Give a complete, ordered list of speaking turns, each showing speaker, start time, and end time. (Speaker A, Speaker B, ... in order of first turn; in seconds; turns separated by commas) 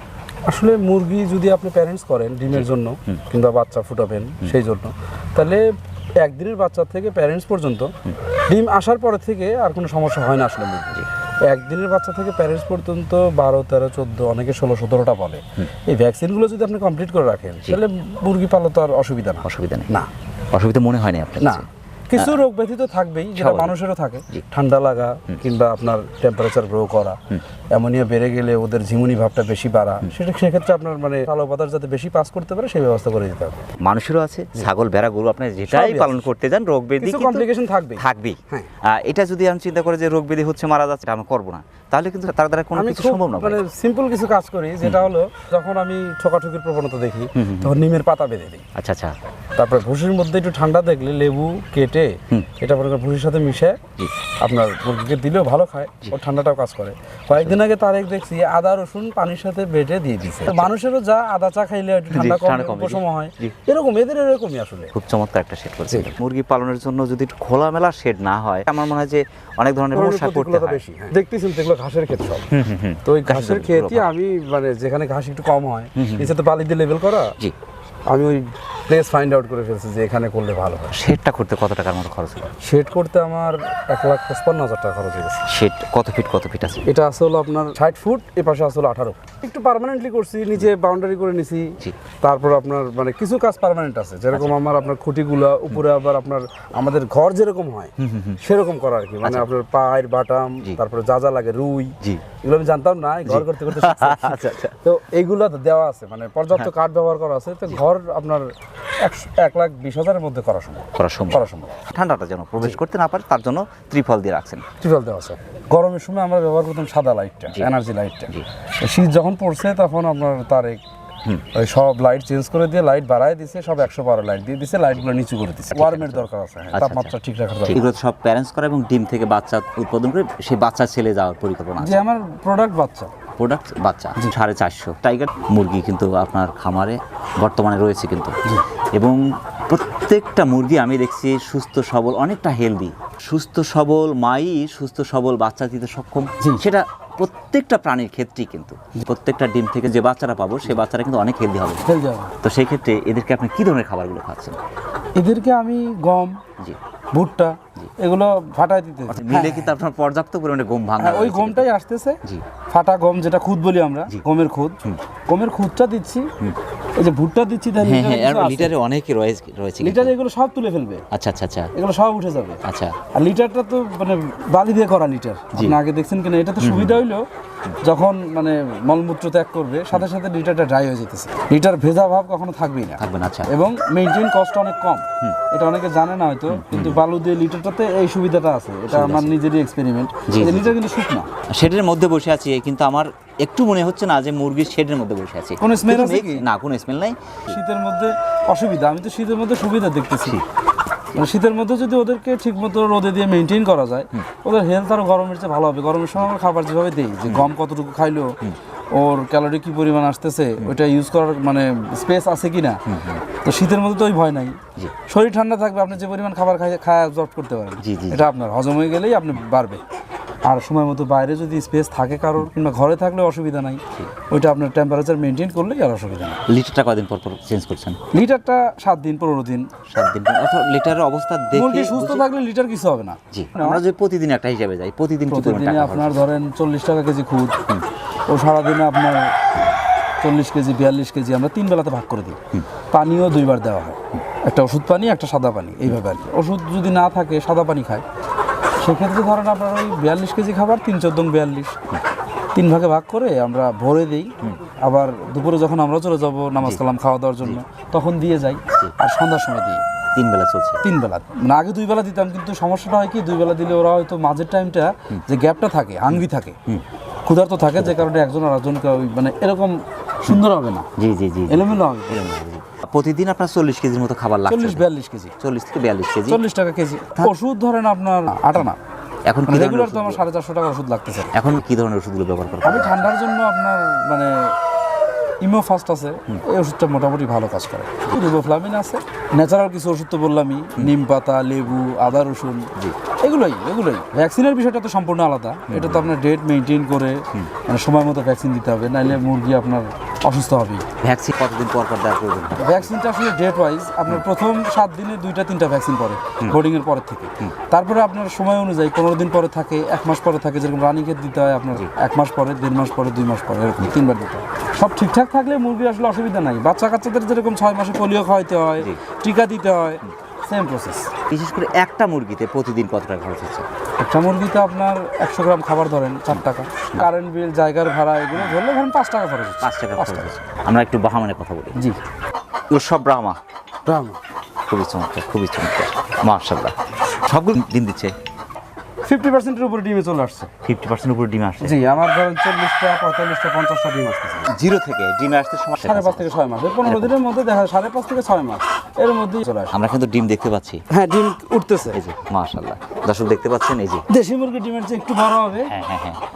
Speaker A: 0.5-7.9, Speaker B: 2.5-3.2, Speaker A: 8.5-20.1, Speaker B: 19.4-19.9, Speaker B: 20.5-21.7, Speaker A: 21.4-27.2, Speaker B: 23.4-23.7, Speaker A: 27.7-33.7, Speaker B: 33.8-43.6, Speaker A: 35.7-36.3, Speaker A: 37.0-38.7, Speaker A: 42.7-48.6, Speaker B: 44.8-45.1, Speaker B: 47.4-47.8, Speaker B: 48.8-49.2, Speaker A: 49.6-53.8, Speaker A: 54.4-64.9, Speaker B: 57.3-57.6, Speaker B: 60.5-60.7, Speaker B: 62.1-63.5, Speaker B: 64.9-70.8, Speaker A: 69.9-72.5, Speaker B: 72.5-74.1, Speaker A: 73.0-77.3, Speaker B: 76.0-76.3, Speaker A: 78.1-81.0, Speaker B: 80.9-82.5, Speaker A: 82.6-85.4, Speaker B: 85.5-86.8, Speaker A: 86.8-111.8, Speaker B: 98.0-98.4, Speaker B: 103.3-104.7, Speaker B: 111.0-114.7, Speaker A: 114.8-120.8, Speaker A: 121.5-127.8, Speaker B: 125.7-127.1, Speaker B: 127.7-132.0, Speaker A: 131.8-133.1, Speaker B: 133.4-138.4, Speaker B: 138.9-151.8, Speaker A: 146.4-146.7, Speaker A: 151.8-152.4, Speaker B: 152.4-154.6, Speaker A: 155.2-156.4, Speaker A: 157.1-159.8, Speaker B: 159.1-161.7, Speaker A: 161.0-166.3, Speaker A: 167.0-168.7, Speaker B: 167.8-170.1, Speaker A: 169.8-171.1, Speaker B: 171.1-171.7, Speaker A: 171.8-177.3, Speaker B: 172.6-173.0, Speaker B: 176.6-177.0, Speaker A: 177.8-191.3, Speaker B: 183.0-183.6, Speaker B: 186.5-187.0, Speaker B: 188.9-189.3, Speaker B: 190.3-190.8, Speaker B: 191.5-197.6, Speaker A: 195.6-196.5, Speaker A: 197.5-200.4, Speaker A: 201.1-208.4, Speaker B: 207.3-207.5, Speaker A: 208.9-212.8, Speaker B: 212.9-213.2, Speaker A: 213.4-219.8, Speaker B: 217.8-218.3, Speaker A: 220.4-226.4, Speaker B: 226.5-228.0, Speaker A: 228.1-229.7, Speaker B: 229.9-232.2, Speaker A: 231.5-233.8, Speaker B: 233.3-236.2, Speaker A: 235.3-237.6, Speaker A: 238.3-239.4, Speaker A: 240.2-242.4, Speaker A: 242.9-248.1, Speaker A: 248.8-251.8, Speaker A: 252.6-259.8, Speaker B: 260.1-260.8, Speaker A: 260.8-266.6, Speaker B: 266.1-266.9, Speaker A: 267.3-270.9, Speaker B: 267.8-268.1, Speaker B: 271.0-274.9, Speaker A: 271.5-272.2, Speaker A: 274.5-275.3, Speaker B: 275.4-276.4, Speaker A: 276.3-278.8, Speaker B: 279.3-280.2, Speaker A: 279.5-281.3, Speaker B: 281.3-283.1, Speaker A: 282.6-284.5, Speaker A: 285.4-292.7, Speaker A: 293.2-300.9, Speaker B: 295.7-296.1, Speaker B: 301.0-302.9, Speaker A: 302.6-321.1, Speaker B: 321.3-323.7, Speaker A: 324.0-330.3, Speaker B: 326.3-327.1, Speaker B: 329.6-331.8, Speaker B: 332.7-333.4, Speaker A: 333.9-334.2, Speaker B: 334.7-338.1, Speaker A: 339.1-340.5, Speaker B: 340.6-341.8, Speaker A: 341.6-344.5, Speaker B: 344.5-346.3, Speaker A: 345.8-349.8, Speaker B: 346.8-347.1, Speaker B: 349.7-350.8, Speaker A: 350.9-352.0, Speaker B: 351.9-354.1, Speaker A: 354.1-355.8, Speaker B: 355.7-356.2